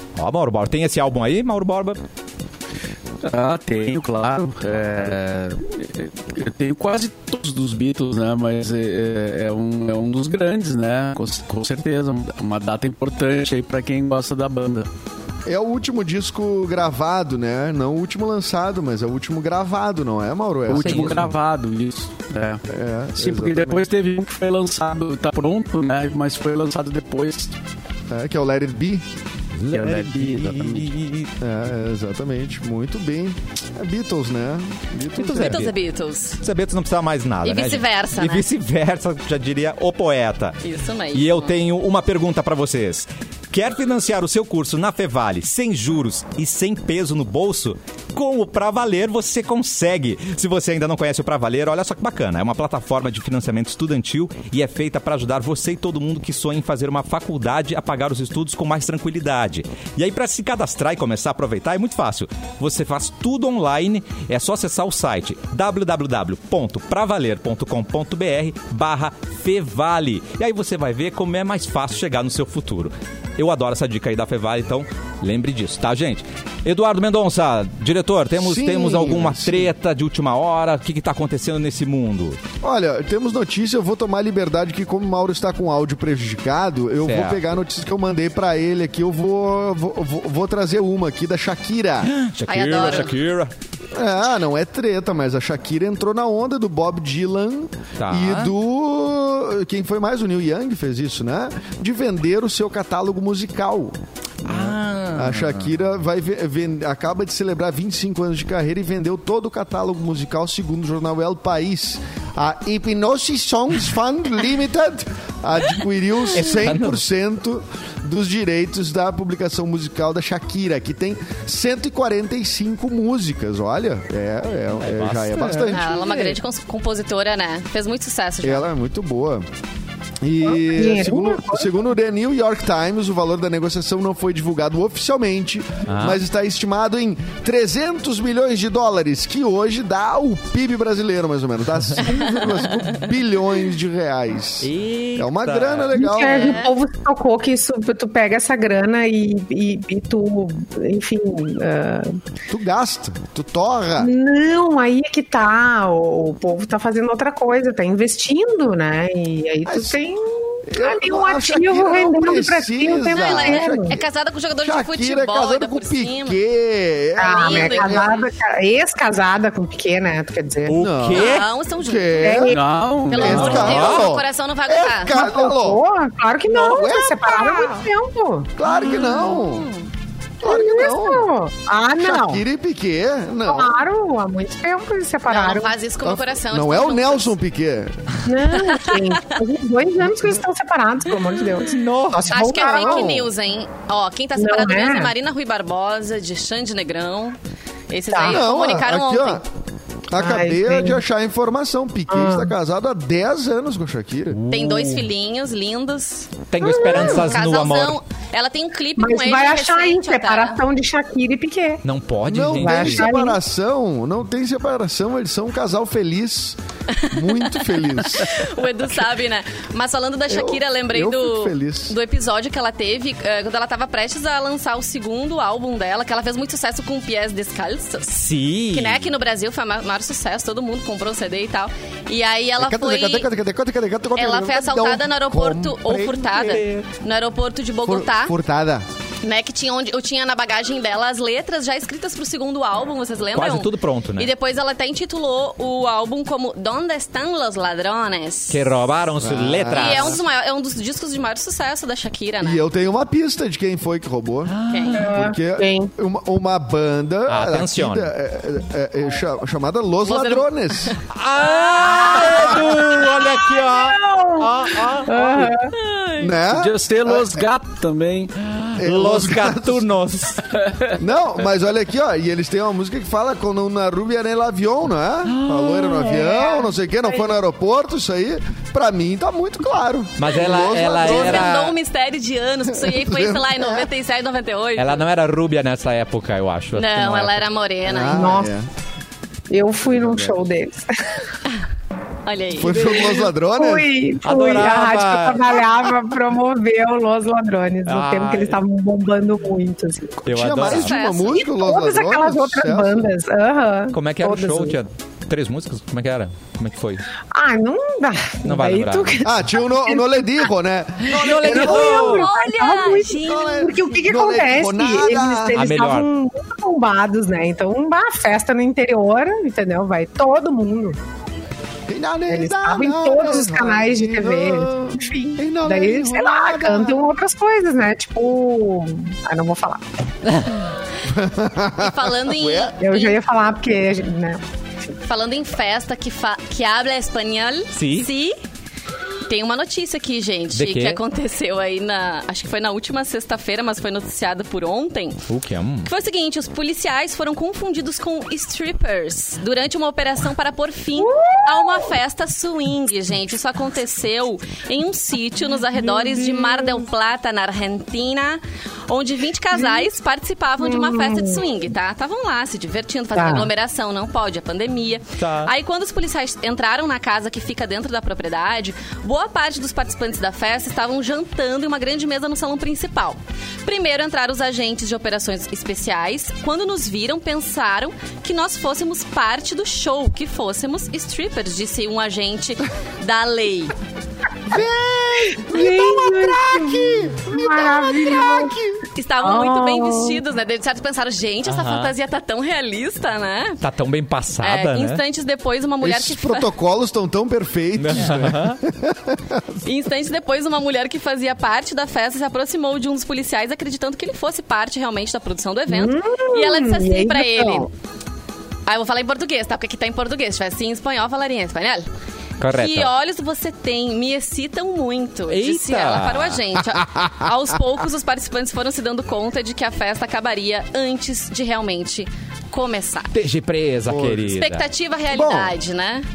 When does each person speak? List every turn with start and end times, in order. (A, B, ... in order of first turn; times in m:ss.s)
0:00.2-0:02.0 A
0:03.2-0:14.9 B
0:15.4-0:21.2 C
0:20.7-0:22.6 B
0:20.7-0:21.3 A
0:22.7-0:23.8 C
0:23.2-0:27.6 B
0:28.1-0:29.0 C
0:29.5-0:31.3 A
0:29.7-0:30.9 B
0:31.4-0:35.7 C
0:35.2-0:35.8 A
0:35.3-0:36.4 D
0:36.4-0:40.6 A
0:37.4-0:38.4 D
0:40.6-0:41.5 D
0:41.1-1:22.4 A
1:18.4-1:19.7 C
1:22.6-1:32.1 C
1:27.0-1:27.4 A
1:32.0-1:33.5 A
1:32.5-1:33.2 D
1:33.9-2:06.3 C
1:38.0-1:38.5 A
1:44.4-1:45.7 A
1:56.3-1:57.0 A
2:04.8-2:06.3 A
2:05.7-2:08.7 D
2:08.4-2:09.5 C
2:10.2-2:26.6 C
2:10.5-2:11.7 E
2:15.8-2:16.2 A
2:22.0-2:22.9 D
2:24.6-2:25.9 A
2:25.9-2:32.2 E
2:26.2-2:26.7 D
2:32.5-2:34.1 C
2:34.0-2:44.0 E
2:39.6-2:40.0 C
2:40.6-2:44.1 C
2:43.1-2:46.4 D
2:44.6-2:48.1 C
2:47.2-2:50.8 E
2:47.2-2:48.3 D
2:50.7-2:51.5 A
2:50.8-2:52.6 C
2:51.1-2:52.5 D
2:52.2-2:52.6 E
2:52.5-2:53.6 B
2:53.1-2:55.1 D
2:53.1-2:55.8 C
2:53.2-2:54.1 A
2:55.1-2:58.5 E
2:56.5-2:57.8 C
2:58.6-2:59.7 C
2:58.7-2:59.9 D
3:00.4-3:01.3 C
3:00.4-3:02.4 E
3:02.0-3:03.8 C
3:03.4-3:05.7 E
3:05.3-3:07.3 D
3:06.0-3:08.0 C
3:08.2-3:13.3 E
3:08.5-3:09.4 D
3:11.6-3:12.3 A
3:12.3-3:17.4 D
3:14.4-3:15.1 E
3:17.9-3:19.4 D
3:18.1-3:18.4 E
3:18.2-3:19.4 C
3:20.1-3:24.4 C
3:20.2-3:21.0 E
3:22.1-3:22.5 E
3:24.3-3:25.1 A
3:24.5-3:30.6 D
3:26.5-3:28.0 A
3:26.6-3:27.3 E
3:29.0-3:31.8 E
3:31.8-3:33.0 A
3:32.3-3:36.6 C
3:32.4-3:33.4 E
3:36.9-3:53.3 D
3:37.1-3:38.4 C
3:40.3-3:42.0 C
3:48.1-3:49.1 A
3:52.6-3:56.3 C
3:54.1-3:58.4 D
3:56.2-3:56.9 A
3:57.8-3:58.8 C
3:59.2-4:08.7 D
4:03.3-4:04.3 A
4:08.5-4:10.2 A
4:09.2-4:10.2 C
4:09.7-4:12.6 D
4:12.4-4:21.0 C
4:14.4-4:15.1 A
4:14.7-4:15.0 D
4:14.9-4:15.9 E
4:17.3-4:18.1 A
4:20.0-4:21.0 D
4:21.1-4:25.5 A
4:21.8-4:25.7 E
4:21.8-4:22.3 D
4:25.7-4:26.4 D
4:26.2-4:27.4 C
4:26.5-4:28.3 B
4:28.4-4:30.5 A
4:28.8-4:29.9 C
4:30.5-4:31.0 B
4:30.9-4:41.5 C
4:35.3-4:36.3 A
4:36.2-4:36.6 E
4:40.2-4:41.7 A
4:40.5-4:45.0 D
4:42.7-4:43.9 C
4:44.8-4:47.4 A
4:46.7-4:48.4 D
4:47.8-4:48.7 C
4:48.0-4:48.5 E
4:49.5-4:51.2 E
4:49.9-4:50.4 C
4:52.2-4:53.0 D
4:52.6-4:53.9 C
4:52.7-5:00.3 E
4:54.2-4:55.7 A
4:57.8-4:58.6 A
5:00.2-5:00.9 A
5:00.2-5:03.1 C
5:00.6-5:01.5 D
5:01.3-5:04.8 E
5:03.9-5:07.0 A
5:07.3-5:10.5 E
5:08.4-5:09.2 A
5:09.2-5:12.3 C
5:11.1-5:12.2 A
5:11.1-5:21.0 E
5:11.5-5:13.7 D
5:13.2-5:15.6 C
5:15.5-5:16.1 A
5:21.9-5:27.1 C
5:22.3-5:29.8 E
5:31.0-5:32.7 C
5:31.8-5:33.2 D
5:32.8-5:34.4 E
5:35.0-5:38.4 D
5:37.7-5:38.1 A
5:39.3-5:45.3 D
5:40.5-5:41.0 A
5:45.3-5:45.9 A
5:45.8-6:23.7 D
5:51.0-5:51.9 E
5:55.8-5:56.8 A
5:59.6-5:59.8 E
6:00.6-6:01.4 E
6:03.1-6:03.5 E
6:05.2-6:05.5 A
6:24.5-6:28.8 C
6:25.3-6:28.6 E
6:28.9-6:33.6 D
6:29.2-6:30.2 E
6:31.5-6:31.9 A
6:33.6-6:35.0 A
6:34.4-6:36.5 D
6:35.8-6:39.6 C
6:37.8-6:38.6 A
6:39.6-6:47.7 D
6:45.7-6:47.7 E
6:48.6-6:51.8 D
6:52.4-6:52.9 A
6:52.5-7:03.2 D
6:55.3-6:56.6 A
7:03.1-7:04.7 A
7:03.8-7:04.4 C
7:04.3-7:06.0 D
7:05.1-7:05.6 C